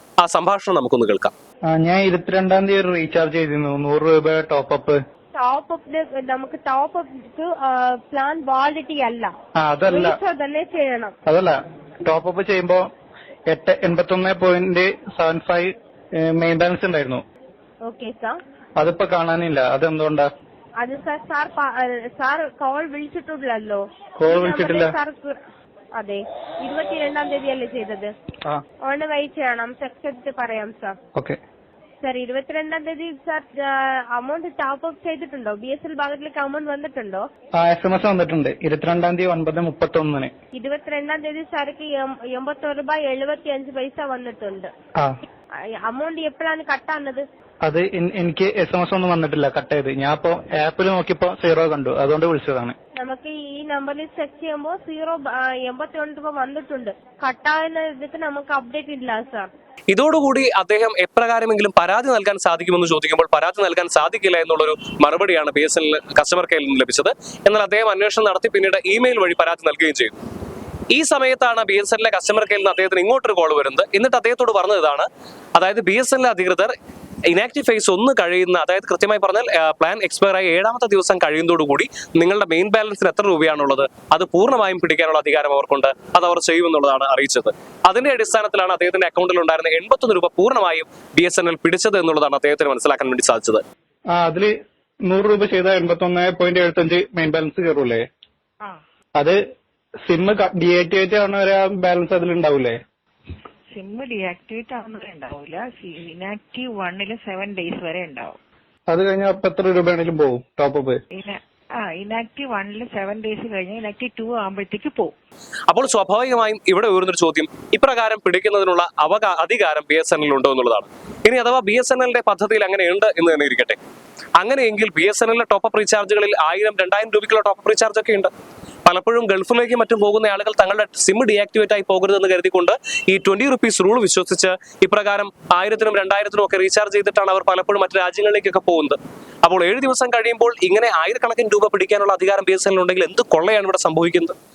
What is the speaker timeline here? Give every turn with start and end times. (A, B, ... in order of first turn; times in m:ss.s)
0:00.2-0:01.3 A
0:01.7-0:05.0 B
0:05.3-0:09.3 C
0:09.6-0:10.2 B
0:09.9-0:11.2 C
0:11.3-0:12.9 B
0:13.5-0:17.2 B
0:17.8-0:18.4 C
0:18.8-0:20.3 B
0:20.8-0:25.4 C
0:24.2-0:25.0 B
0:26.0-0:28.1 C
0:28.8-0:31.0 C
0:32.0-0:37.3 C
0:37.6-0:40.3 B
0:40.5-0:44.7 C
0:45.8-0:47.2 C
0:47.6-0:52.8 B
0:53.0-0:59.5 C
0:59.9-1:10.2 A
1:10.9-1:16.7 A
1:17.3-1:33.6 A
1:34.1-1:34.5 B
1:35.1-1:38.0 B
1:40.1-1:42.8 B
1:43.7-1:48.4 D
1:48.9-1:51.0 B
1:51.1-1:55.2 D
1:55.7-2:03.8 A
2:04.4-2:08.3 A
2:08.9-2:24.4 A